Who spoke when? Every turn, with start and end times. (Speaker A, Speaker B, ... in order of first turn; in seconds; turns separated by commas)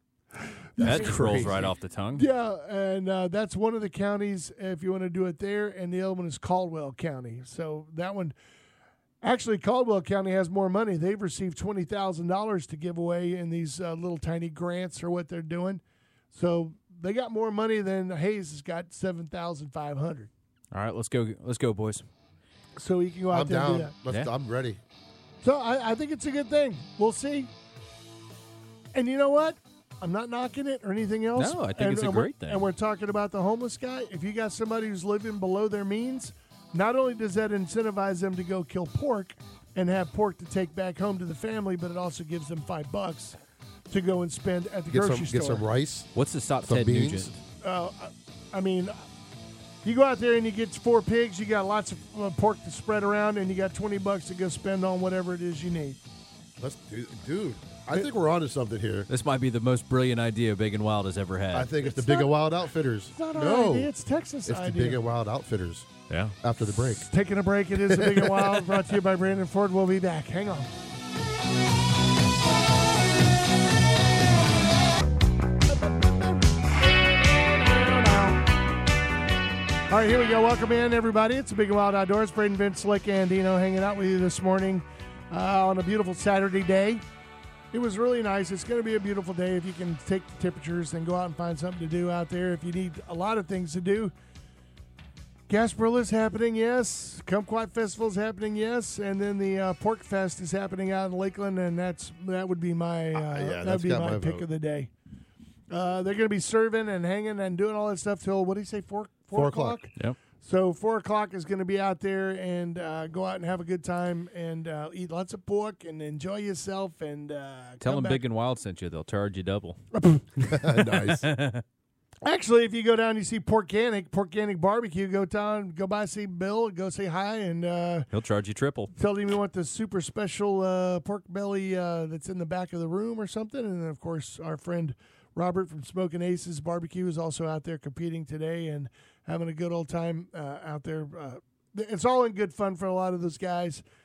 Speaker A: 0.3-8.3, Speaker B: 0.8-1.7, Speaker C: 0.8-2.2, Speaker A: 9.2-15.8, Speaker A: 16.3-20.3, Speaker C: 20.7-22.0, Speaker A: 22.8-23.9, Speaker B: 23.3-24.8, Speaker A: 25.4-27.5, Speaker A: 28.9-43.4, Speaker C: 31.4-32.6, Speaker A: 43.9-45.6, Speaker B: 44.9-46.1, Speaker C: 46.1-47.4, Speaker B: 46.6-47.3, Speaker A: 47.6-49.0, Speaker A: 49.8-56.0, Speaker B: 56.6-59.1, Speaker C: 59.1-61.7, Speaker B: 61.5-63.9, Speaker A: 61.8-62.3, Speaker A: 63.1-65.0, Speaker B: 64.5-67.1, Speaker C: 66.1-66.3, Speaker A: 67.0-70.7, Speaker B: 67.9-68.6, Speaker A: 77.1-78.4, Speaker A: 79.9-87.0, Speaker A: 87.7-94.1, Speaker A: 95.5-104.9, Speaker B: 103.1-104.5, Speaker A: 105.7-118.2, Speaker B: 109.3-109.8, Speaker C: 117.8-119.8, Speaker A: 120.0-120.2, Speaker C: 120.4-121.6, Speaker B: 120.4-121.3, Speaker A: 122.2-128.1, Speaker C: 128.1-128.9, Speaker A: 128.9-143.8